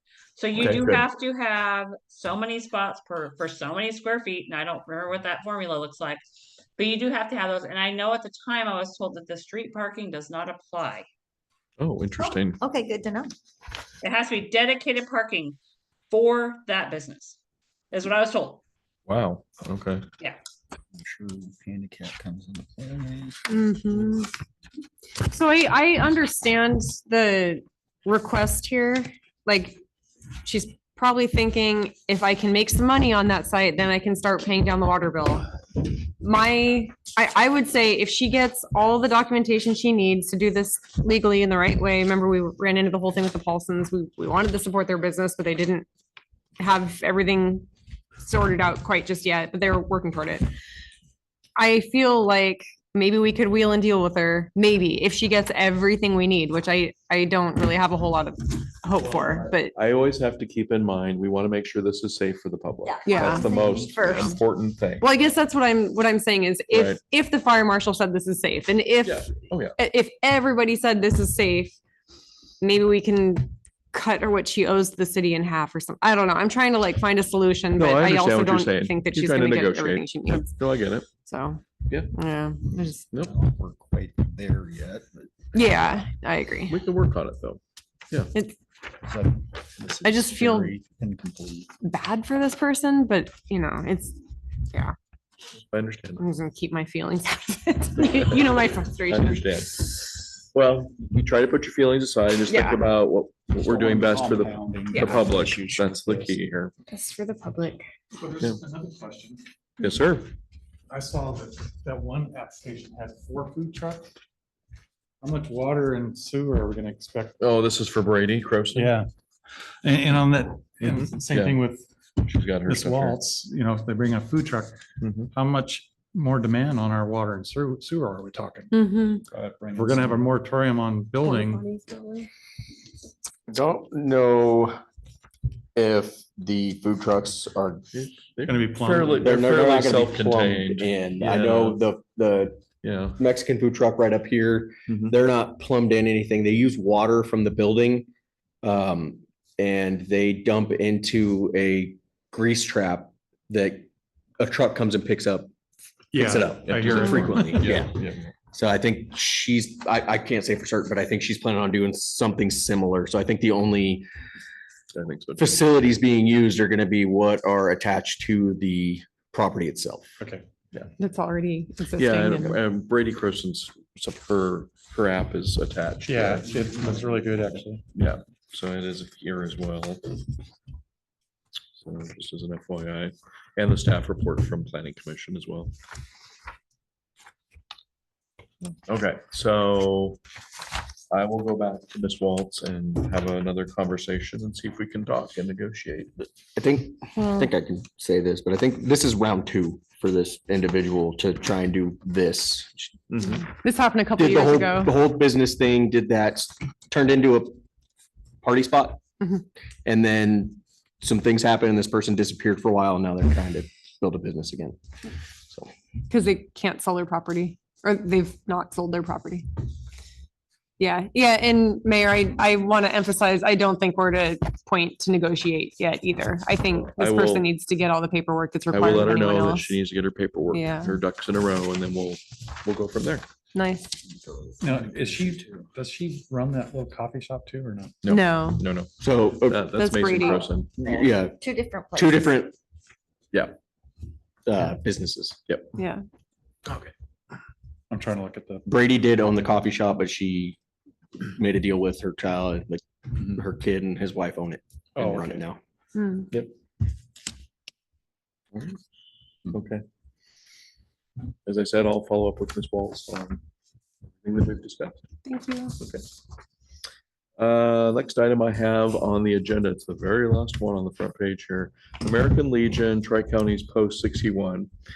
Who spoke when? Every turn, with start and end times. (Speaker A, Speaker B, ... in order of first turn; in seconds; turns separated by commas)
Speaker A: 0.4-6.2, Speaker B: 0.6-1.1, Speaker A: 6.8-11.1, Speaker B: 11.8-12.6, Speaker C: 12.2-13.3, Speaker A: 14.0-15.6, Speaker A: 16.1-17.4, Speaker A: 17.9-18.6, Speaker B: 19.1-20.1, Speaker D: 21.0-23.5, Speaker E: 23.5-24.3, Speaker E: 25.2-29.8, Speaker E: 30.4-45.9, Speaker E: 46.6-47.7, Speaker E: 48.2-50.5, Speaker E: 51.6-59.7, Speaker B: 59.4-65.1, Speaker C: 62.9-64.3, Speaker E: 63.1-63.5, Speaker E: 65.0-71.8, Speaker B: 66.7-67.0, Speaker B: 69.0-69.8, Speaker E: 72.6-80.5, Speaker B: 77.8-81.1, Speaker E: 81.3-83.1, Speaker D: 83.2-85.3, Speaker E: 85.5-86.8, Speaker B: 86.7-88.3, Speaker D: 89.1-91.7, Speaker E: 90.0-90.8, Speaker E: 91.8-94.2, Speaker B: 95.7-96.2, Speaker E: 96.2-99.4, Speaker B: 98.1-98.5, Speaker B: 99.1-106.7, Speaker E: 102.5-102.8, Speaker D: 103.6-106.4, Speaker F: 103.8-104.1, Speaker E: 106.9-107.9, Speaker F: 108.2-109.4, Speaker B: 109.8-110.3, Speaker F: 110.9-114.1, Speaker F: 115.2-117.4, Speaker B: 117.4-119.0, Speaker F: 118.7-119.1, Speaker F: 119.8-121.9, Speaker B: 120.8-121.6, Speaker B: 122.2-123.2, Speaker F: 122.6-124.8, Speaker B: 125.0-125.3, Speaker F: 125.3-128.8, Speaker E: 128.7-129.2, Speaker D: 129.3-130.2, Speaker F: 129.7-131.7, Speaker E: 131.3-132.3, Speaker G: 133.5-134.8, Speaker G: 135.8-137.9, Speaker B: 137.9-141.8, Speaker F: 138.4-139.3, Speaker G: 139.2-142.6, Speaker B: 142.8-143.2, Speaker G: 143.2-148.1, Speaker B: 144.9-145.2, Speaker G: 148.6-153.9, Speaker G: 154.4-155.5, Speaker F: 156.1-157.6, Speaker G: 156.1-157.9, Speaker B: 156.6-158.3, Speaker G: 158.5-164.1, Speaker B: 164.9-165.6, Speaker G: 165.4-170.2, Speaker F: 170.2-170.5, Speaker E: 171.0-172.6, Speaker B: 172.0-177.1, Speaker F: 176.1-177.8, Speaker B: 177.9-180.1, Speaker B: 181.8-185.7, Speaker B: 188.9-190.2, Speaker B: 191.1-196.2, Speaker G: 196.6-203.0, Speaker E: 197.2-197.4, Speaker B: 203.1-203.5, Speaker E: 203.6-204.9, Speaker G: 204.2-207.6, Speaker G: 208.4-209.0, Speaker G: 209.8-214.8, Speaker E: 216.1-219.5, Speaker E: 220.8-229.8, Speaker B: 226.9-227.5, Speaker B: 228.7-233.3, Speaker E: 230.5-231.0, Speaker E: 233.5-233.9, Speaker D: 234.2-235.7, Speaker F: 234.6-238.1, Speaker B: 238.0-240.9, Speaker E: 238.1-238.6, Speaker G: 239.0-239.7, Speaker E: 239.7-240.4, Speaker G: 240.8-241.4, Speaker C: 241.3-242.3, Speaker G: 241.9-242.5, Speaker G: 244.5-245.6, Speaker E: 245.8-246.0, Speaker F: 247.9-248.7, Speaker G: 248.7-250.6, Speaker G: 251.3-255.6, Speaker F: 255.0-255.4, Speaker E: 255.9-256.3, Speaker B: 258.5-258.8, Speaker B: 259.5-259.8, Speaker B: 261.5-263.4, Speaker B: 264.2-265.0, Speaker E: 265.3-265.8, Speaker B: 265.8-266.0, Speaker B: 267.4-274.7